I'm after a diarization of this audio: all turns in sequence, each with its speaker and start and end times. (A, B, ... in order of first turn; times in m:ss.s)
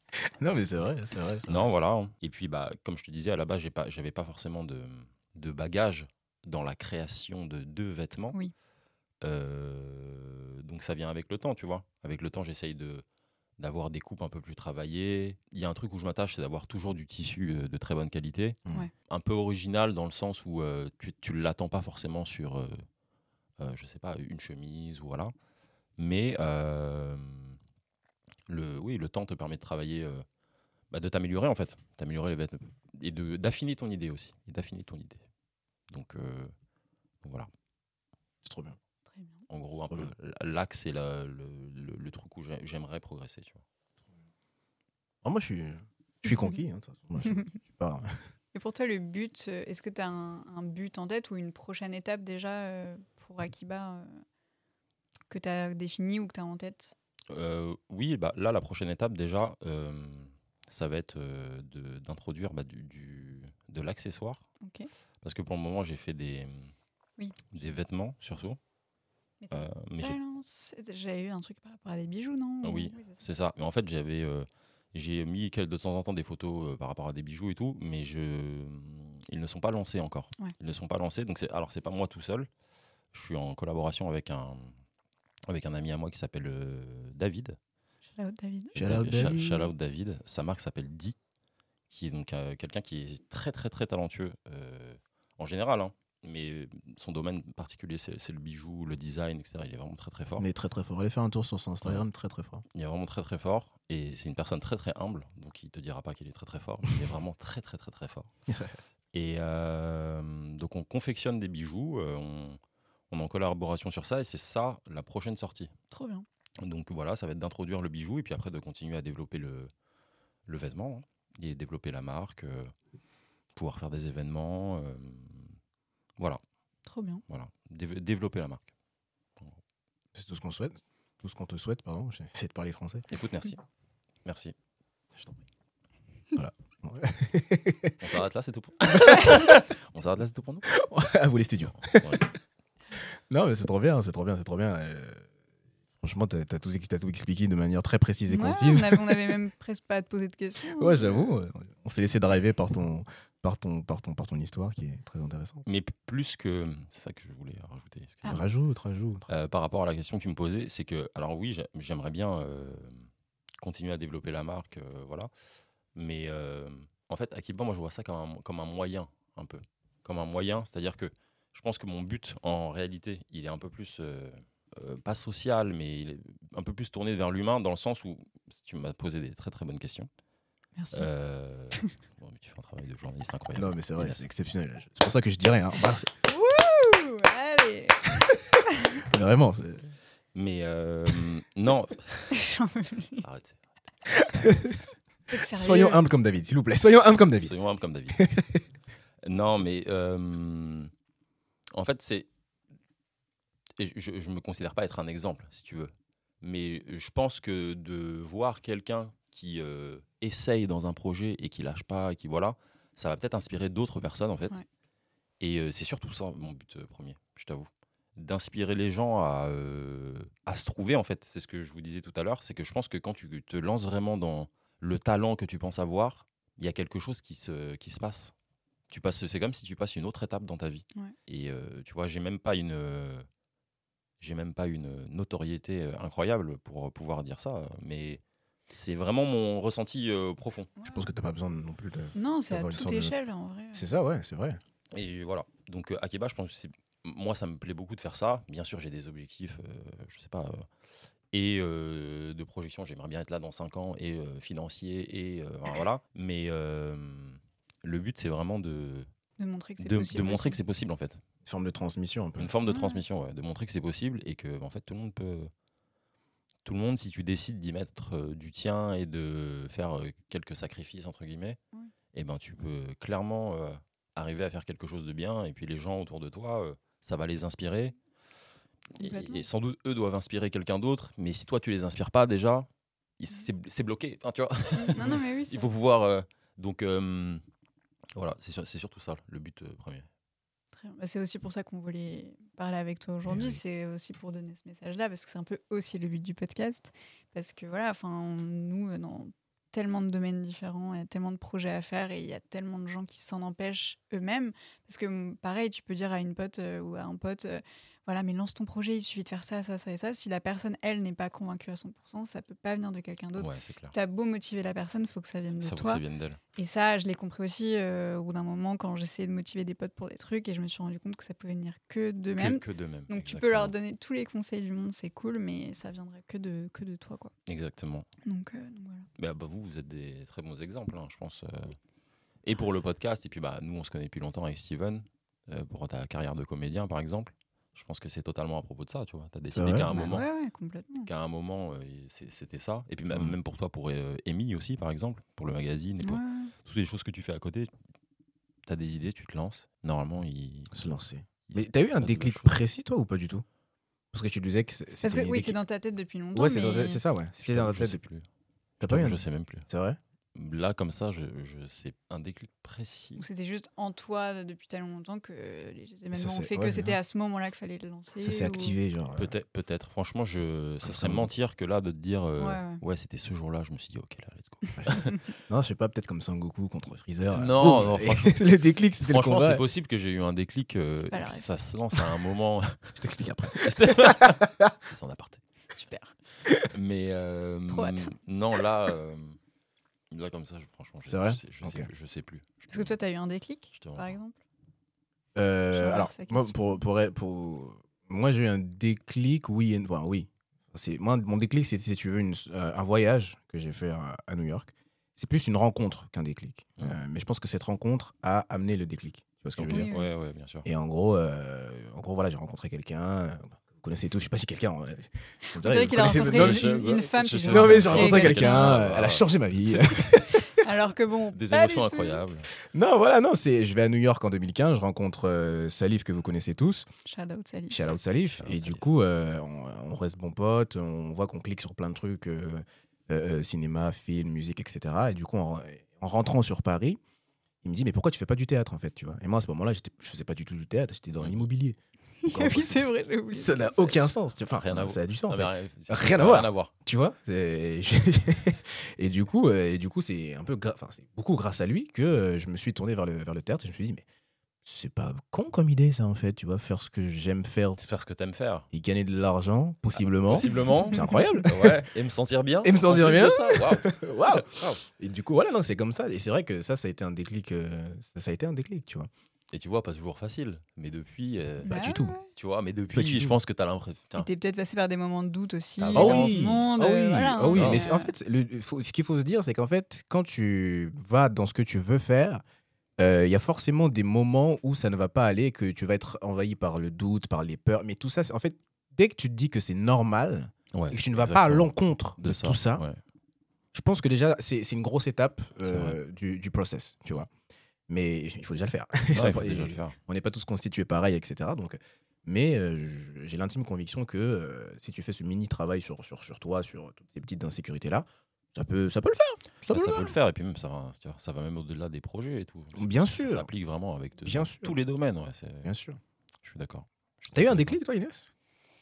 0:00.1-0:01.6 A
0:01.5-0:08.4 B
0:09.2-0:13.0 B
0:13.6-0:22.8 B
0:23.6-0:25.3 B
0:26.0-0:27.6 B
0:28.5-0:30.2 B
0:30.9-0:35.2 B
0:35.9-0:36.5 B
0:37.2-0:37.5 B
0:38.4-0:38.8 A
0:39.1-0:39.4 C
0:39.5-0:43.6 B
0:45.2-0:48.1 A
0:48.5-0:54.2 C
0:55.3-0:56.9 C
0:57.3-1:04.5 B
1:04.6-1:04.9 C
1:05.2-1:06.7 B
1:07.5-1:08.6 B
1:09.4-1:13.3 C
1:09.5-1:10.2 B
1:12.6-1:22.5 B
1:23.1-1:24.7 B
1:25.5-1:27.6 B
1:28.2-1:28.8 C
1:28.8-1:29.7 A
1:28.8-1:31.2 B
1:31.9-1:40.5 B
1:40.4-1:42.6 A
1:42.7-1:48.3 B
1:48.5-1:48.8 A
1:49.1-1:55.7 B
1:55.9-1:56.3 C
1:56.6-1:59.7 B
2:00.5-2:02.7 B
2:03.6-2:05.6 B
2:06.9-2:07.2 C
2:07.3-2:08.7 B
2:10.1-2:13.1 A
2:13.1-2:13.6 B
2:14.2-2:14.6 B
2:16.3-2:18.0 A
2:18.0-2:20.7 B
2:18.9-2:19.6 A
2:20.7-2:22.3 A
2:21.8-2:22.3 B
2:23.3-2:25.3 A
2:26.0-2:29.4 A
2:28.3-2:31.3 C
2:30.6-2:35.6 A
2:35.7-2:38.4 B
2:38.3-2:39.3 A
2:39.3-2:43.1 B
2:43.6-2:45.3 B
2:46.0-3:00.1 B
3:00.8-3:01.1 C
3:00.9-3:04.2 B
3:03.6-3:06.1 A
3:06.2-3:09.0 C
3:09.0-3:09.9 A
3:10.3-3:12.4 B
3:12.3-3:13.2 C
3:13.2-3:13.6 B
3:14.1-3:14.5 B
3:14.1-3:14.8 A
3:15.3-3:16.1 C
3:15.4-3:17.5 A
3:17.4-3:18.2 B
3:18.1-3:18.6 A
3:19.2-3:20.9 B
3:21.7-3:22.3 B
3:23.8-3:34.6 B
3:35.4-3:48.3 B
3:48.9-3:53.3 B
3:54.2-4:00.7 B
4:00.8-4:01.1 C
4:00.8-4:03.1 A
4:02.2-4:03.9 C
4:03.7-4:04.6 A
4:04.9-4:10.7 B
4:11.3-4:19.1 B
4:19.4-4:20.6 C
4:19.8-4:21.2 B
4:21.4-4:22.5 A
4:22.4-4:25.5 B
4:22.7-4:23.0 C
4:26.6-4:31.6 B
4:32.1-4:38.0 B
4:39.0-4:42.7 B
4:39.0-4:39.4 C
4:43.2-4:47.4 B
4:44.7-4:45.7 C
4:48.2-4:50.1 B
4:50.7-5:16.0 C
4:53.3-4:53.6 A
5:13.4-5:13.9 B
5:15.6-5:16.4 B
5:16.6-5:27.3 C
5:22.4-5:23.7 B
5:27.5-5:28.1 B
5:28.2-5:29.1 C
5:29.2-5:31.8 B
5:32.4-5:40.3 B
5:39.5-5:40.0 A
5:39.8-5:41.1 C
5:41.1-5:47.7 B
5:43.1-5:43.4 A
5:46.0-5:46.5 C
5:48.7-5:50.8 B
5:50.7-5:53.4 A
5:51.4-5:52.6 B
5:54.1-5:55.6 A
5:55.0-5:57.0 C
5:56.3-5:58.0 A
5:57.4-5:58.2 B
5:58.8-6:00.0 A
5:58.8-5:59.7 B
6:00.4-6:03.2 B
6:03.2-6:08.8 C
6:06.1-6:07.0 A
6:08.2-6:09.3 A
6:09.1-6:15.2 B
6:10.8-6:11.3 A
6:12.4-6:12.8 C
6:15.5-6:19.6 A
6:17.3-6:18.4 B
6:19.1-6:23.0 B
6:21.1-6:21.5 C
6:23.0-6:24.7 A
6:23.5-6:25.4 B
6:25.7-6:26.1 C
6:26.6-6:29.4 B
6:27.7-6:28.1 C
6:30.1-6:33.0 B
6:31.1-6:31.9 A
6:32.7-6:34.4 C
6:33.7-6:34.2 B
6:35.4-6:49.9 A
6:35.7-6:36.8 C
6:49.6-6:50.7 B
6:49.7-6:50.1 C
6:50.6-6:56.7 A
6:55.5-6:58.8 C
6:56.0-7:00.0 B
6:57.5-7:00.5 A
7:00.0-7:02.2 C
7:01.3-7:02.5 B
7:02.6-7:06.9 A
7:07.0-7:07.8 C
7:07.7-7:17.0 A
7:08.3-7:08.9 B
7:17.6-7:21.8 A
7:21.2-7:21.5 B
7:22.2-7:24.0 C
7:22.3-7:34.0 A
7:24.5-7:26.7 B
7:34.6-7:37.8 A
7:37.8-7:38.7 B
7:38.7-7:41.9 A
7:40.0-7:44.8 B
7:40.9-7:41.2 C
7:42.6-7:49.1 A
7:49.5-7:54.3 B
7:51.6-7:52.3 C
7:51.7-7:52.2 A
7:52.9-7:53.4 A
7:54.2-7:58.1 C
7:55.8-7:56.6 B
7:55.9-8:02.4 A
7:57.5-7:57.9 B
8:03.0-8:12.8 A
8:10.7-8:13.0 B
8:13.7-8:17.3 A
8:15.7-8:16.0 B
8:17.9-8:30.2 A
8:19.1-8:20.0 B
8:29.7-8:35.7 B
8:32.8-8:33.5 A
8:34.2-8:34.8 A
8:35.6-8:36.0 A
8:36.4-8:37.8 B
8:37.3-8:38.2 A